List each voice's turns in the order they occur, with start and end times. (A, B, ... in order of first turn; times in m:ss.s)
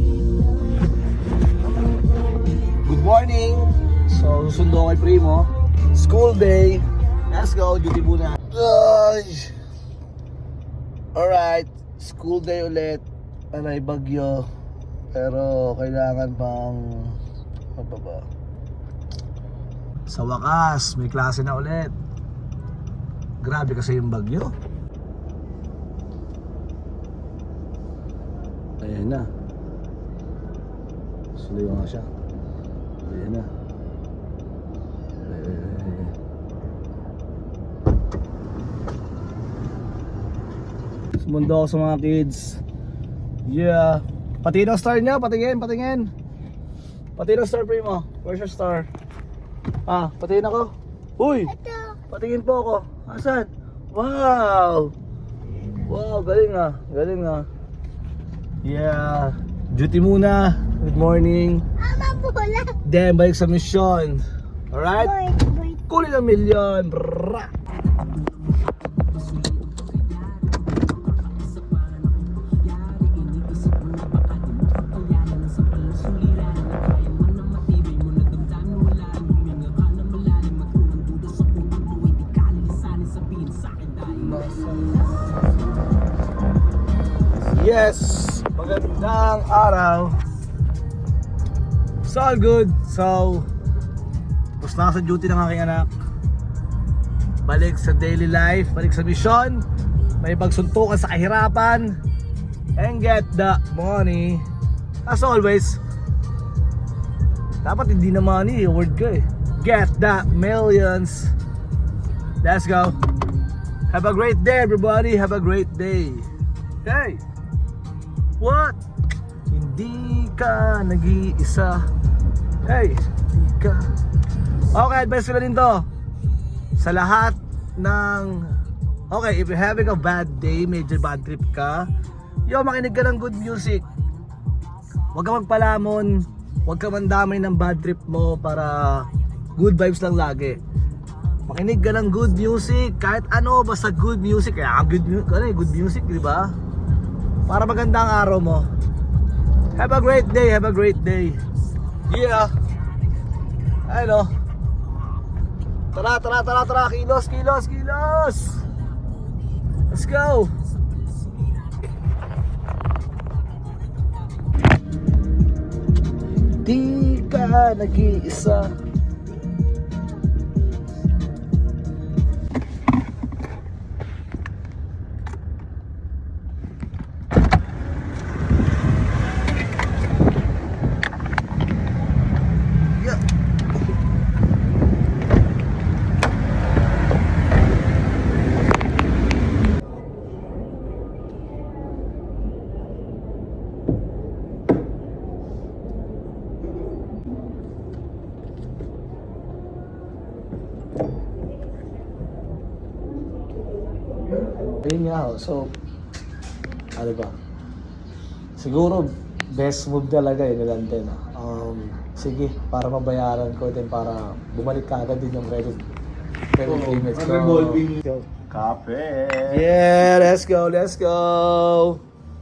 0:02.8-0:09.5 A
0:11.1-0:14.5 A
0:15.1-0:17.2 A
0:17.7-0:18.2 A
0:20.1-0:21.9 A
0:23.4-0:24.5 A
0:28.8-0:29.3 A
0:31.3-0:32.1 A
0:33.0-0:33.5 A
0:35.2-0:36.1 A
0:41.2-0:42.6 A
0:43.4-0:46.1 A
0:47.2-0:48.9 A
0:49.9-0:51.5 A
0:51.5-0:52.0 B
0:52.1-0:54.9 A
0:55.8-0:57.5 A
0:58.6-1:01.6 A
1:01.8-1:02.8 B
1:02.8-1:05.2 A
1:05.0-1:05.8 B
1:05.9-1:07.5 A
1:13.2-1:13.6 A
1:15.8-1:16.6 A
1:18.6-1:20.6 A
1:21.6-1:24.9 A
1:27.4-1:30.2 A
1:32.0-1:33.4 A
1:34.6-1:35.9 A
1:37.4-1:39.6 A
1:40.2-1:42.0 A
1:42.8-1:44.4 A
1:45.0-1:45.8 A
1:47.6-1:51.3 A
1:52.4-1:53.0 A
1:53.9-1:56.3 A
1:56.8-1:57.2 A
1:58.4-1:58.8 A
1:59.5-2:01.9 A
2:02.6-2:03.9 A
2:04.7-2:05.8 A
2:06.8-2:08.6 A
2:09.1-2:11.9 A
2:12.5-2:13.8 A
2:15.1-2:20.6 A
2:21.5-2:26.5 A
2:27.5-2:28.7 A
2:29.8-2:31.4 A
2:32.1-2:32.5 A
2:33.9-2:34.3 A
2:35.9-2:38.6 A
2:39.9-2:40.5 A
2:46.6-2:48.7 A
3:24.4-3:25.7 A
3:27.0-3:27.3 A
3:28.6-3:35.8 A
3:36.5-3:38.3 A
3:36.6-3:39.7 C
3:39.5-3:42.0 A